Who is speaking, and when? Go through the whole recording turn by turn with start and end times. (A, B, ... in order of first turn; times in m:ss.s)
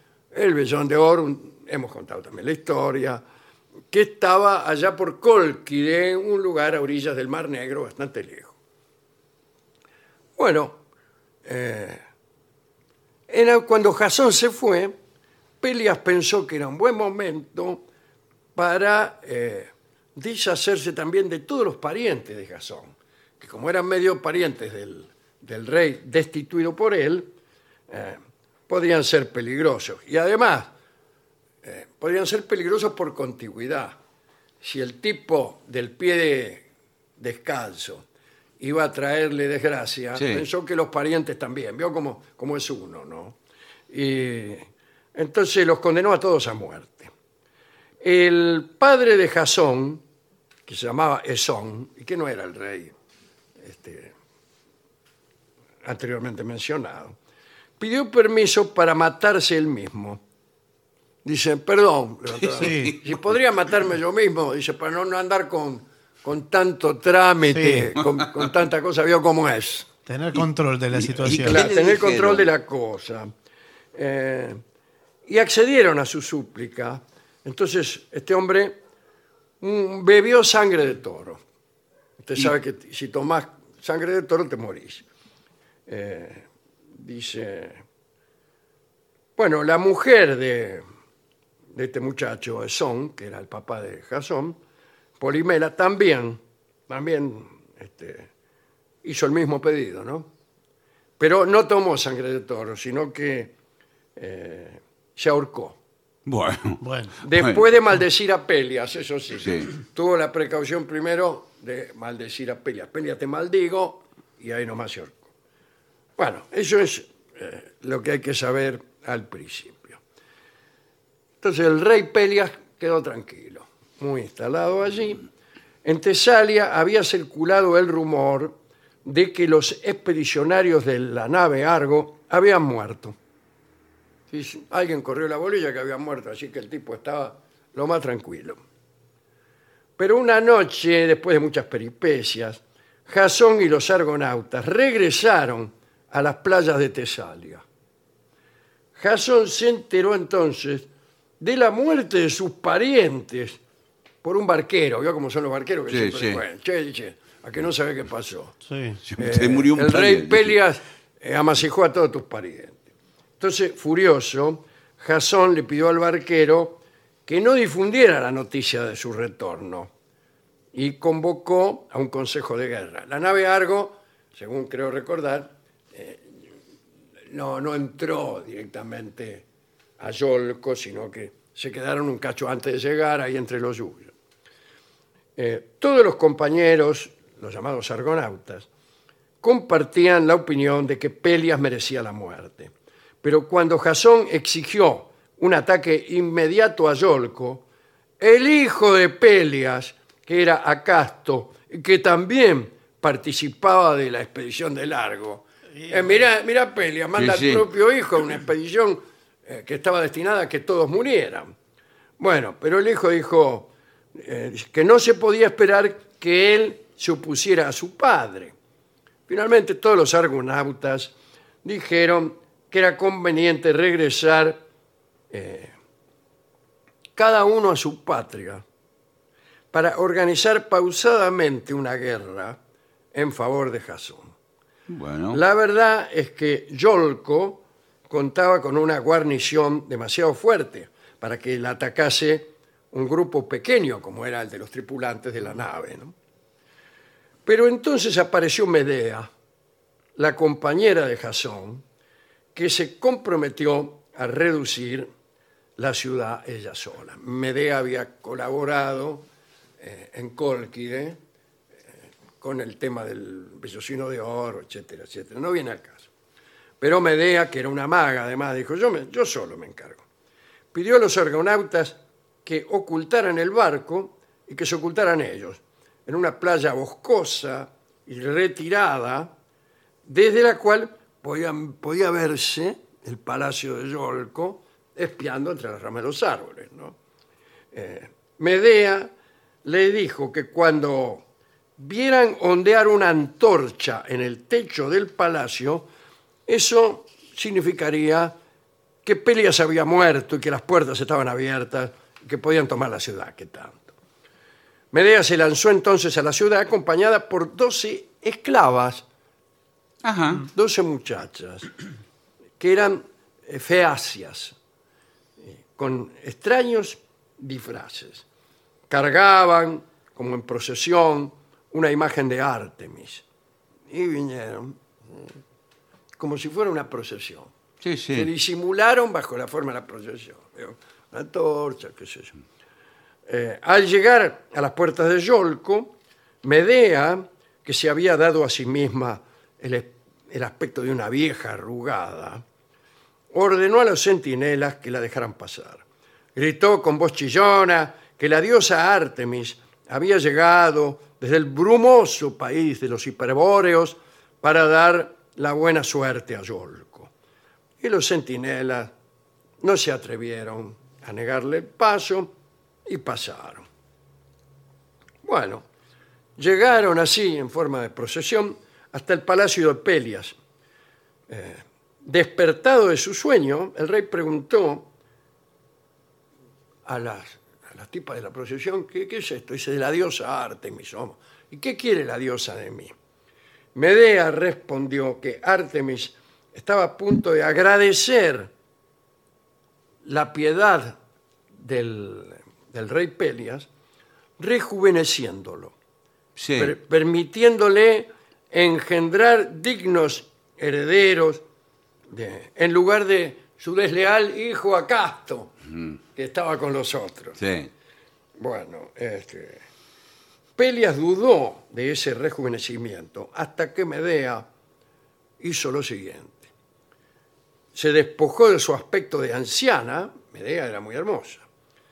0:00.3-0:03.2 A
0:03.9-0:08.6 A
0:10.4-0:10.8 A
0:11.4-0:12.0 A
0:13.3-0:15.0 A
0:15.6-0:17.8 A
0:18.6-0:27.3 A
0:27.9-0:30.7 A
0:31.6-0:34.0 A
0:34.6-0:36.6 A
0:37.2-0:38.0 A
0:38.6-0:43.4 A
0:40.2-0:40.4 B
0:43.9-0:47.1 A
0:48.0-0:50.0 A
0:50.7-0:52.9 A
0:53.6-0:54.1 A
0:55.8-0:57.2 A
0:57.8-1:00.2 A
1:01.2-1:09.9 A
1:02.6-1:03.0 C
1:02.6-1:02.9 B
1:07.4-1:07.9 C
1:10.1-1:11.6 C
1:10.9-1:12.5 B
1:11.2-1:13.3 A
1:14.0-1:14.6 A
1:15.3-1:18.8 A
1:19.6-1:21.4 A
1:22.2-1:25.0 A
1:25.9-1:27.8 A
1:29.4-1:30.8 A
1:31.7-1:34.6 A
1:35.2-1:38.3 A
1:39.0-1:40.3 A
1:41.2-1:43.5 A
1:44.2-1:45.8 A
1:46.3-1:46.8 B
1:46.8-1:47.2 C
1:47.2-1:55.2 A
1:47.3-1:47.6 B
1:56.2-2:00.0 A
2:01.4-2:05.2 A
2:05.8-2:13.2 A
2:14.3-2:18.6 A
2:20.0-2:27.6 A
2:29.0-2:30.9 A
2:31.4-2:33.6 A
2:34.2-2:38.6 A
2:35.9-2:36.4 B
2:38.7-2:39.0 C
2:39.0-2:40.6 B
2:39.2-2:42.8 A
2:43.4-2:49.9 A
2:50.7-2:56.3 A
2:57.3-2:59.4 A
3:00.0-3:04.1 A
3:05.4-3:08.7 A
3:09.4-3:17.6 A
3:18.2-3:31.5 A
3:25.8-3:26.2 C
3:27.2-3:27.6 B
3:32.2-3:38.5 A
3:39.3-3:44.6 A
3:45.3-3:45.7 A
3:47.2-3:48.6 A
3:49.7-3:52.6 A
3:53.1-3:54.3 A
3:54.9-3:55.4 B
3:55.3-4:06.1 A
4:07.5-4:09.3 A
4:10.2-4:11.8 A
4:12.6-4:15.1 A
4:15.8-4:19.3 A
4:19.8-4:21.2 A
4:22.4-4:26.1 A
4:26.8-4:30.0 A
4:30.7-4:39.3 A
4:40.1-4:47.0 A
4:47.7-4:49.1 A
4:49.6-4:51.3 A
4:51.8-4:55.9 A
4:56.5-4:58.4 A
4:59.0-5:03.9 A
5:04.9-5:09.0 A
5:10.0-5:10.5 B
5:10.4-5:11.7 A
5:12.6-5:14.6 A
5:15.6-5:18.2 A
5:18.9-5:23.2 A
5:23.9-5:25.3 A
5:26.2-5:27.5 A
5:27.8-5:28.3 B
5:28.1-5:32.4 A
5:33.3-5:42.4 A
5:43.3-5:45.8 A
5:46.4-5:57.1 A
5:57.8-5:58.9 A
5:59.6-6:02.3 A
6:02.9-6:03.7 A
6:05.2-6:05.7 A
6:06.4-6:10.4 A
6:11.3-6:14.9 A
6:16.8-6:22.9 A
6:23.8-6:28.5 A
6:30.0-6:31.0 A
6:31.6-6:33.7 A
6:34.4-6:35.8 A
6:36.4-6:36.7 B
6:36.6-6:41.4 A
6:42.1-6:45.6 A
6:46.2-6:47.4 A
6:47.4-6:47.7 B
6:48.4-6:49.6 A
6:50.6-6:54.4 A
6:55.4-6:56.5 A
6:57.7-7:01.4 A